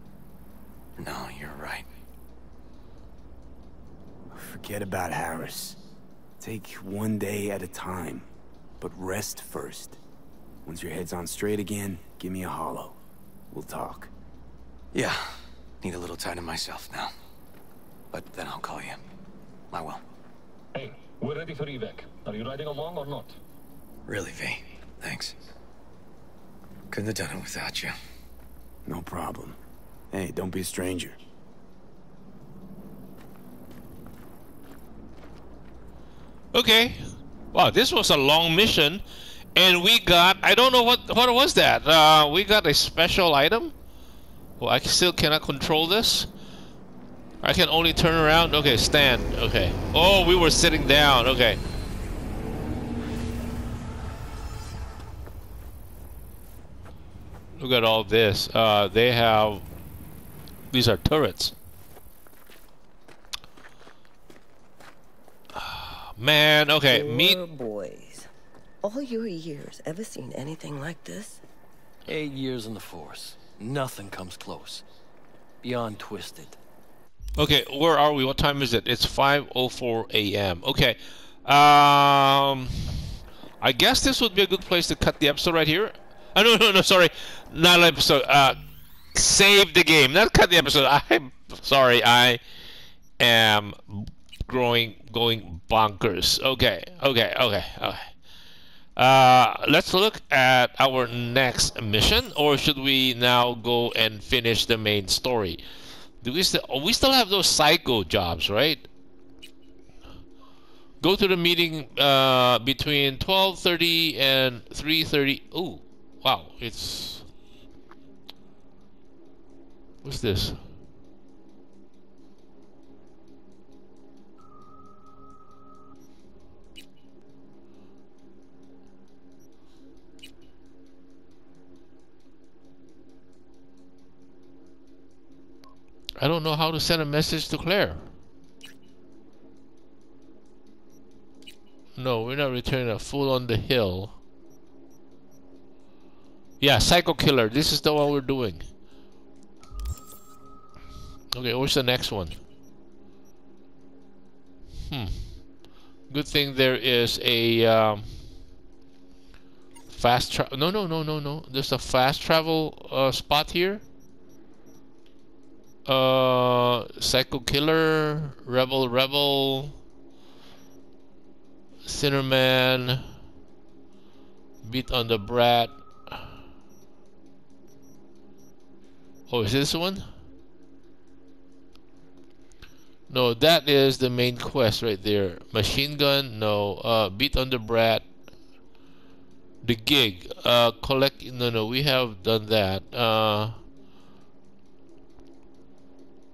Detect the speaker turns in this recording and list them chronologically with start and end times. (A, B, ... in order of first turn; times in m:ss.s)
0:01.0-0:01.9 A
0:04.3-0:05.8 B
0:06.4-0:08.3 B
0:08.8-0:10.0 B
0:10.6-0:13.0 B
0:13.5-0:14.1 B
0:14.9-0:17.1 A
0:18.1-0:19.0 A
0:19.7-0:20.0 A
0:20.7-0:23.4 C
0:24.1-0:25.4 A
0:26.9-0:28.0 A
0:28.9-0:29.6 B
0:30.1-0:31.2 B
0:36.5-0:39.0 D
0:39.6-0:43.7 D
0:44.6-0:46.3 D
0:47.4-0:51.6 D
0:57.6-0:59.7 D
1:00.7-1:01.6 D
1:05.6-1:07.4 D
1:06.9-1:08.3 E
1:08.8-1:11.4 E
1:12.1-1:14.8 F
1:15.6-1:16.6 F
1:17.4-1:23.0 D
1:23.6-1:28.6 D
1:29.1-1:32.4 D
1:33.2-1:38.1 D
1:39.0-1:45.6 D
1:46.2-1:48.8 D
1:51.0-1:57.3 D
2:00.0-2:00.6 D
2:16.2-2:18.1 D
2:22.0-2:24.2 D
2:26.6-2:28.7 D
2:31.3-2:32.4 D
2:34.9-2:35.3 D
2:36.1-2:38.1 D
2:39.9-2:43.8 D
2:45.9-2:49.8 D
2:51.8-2:53.1 D
2:54.6-2:56.3 D
2:59.3-3:00.0 D
3:03.1-3:08.0 D
3:09.6-3:13.6 D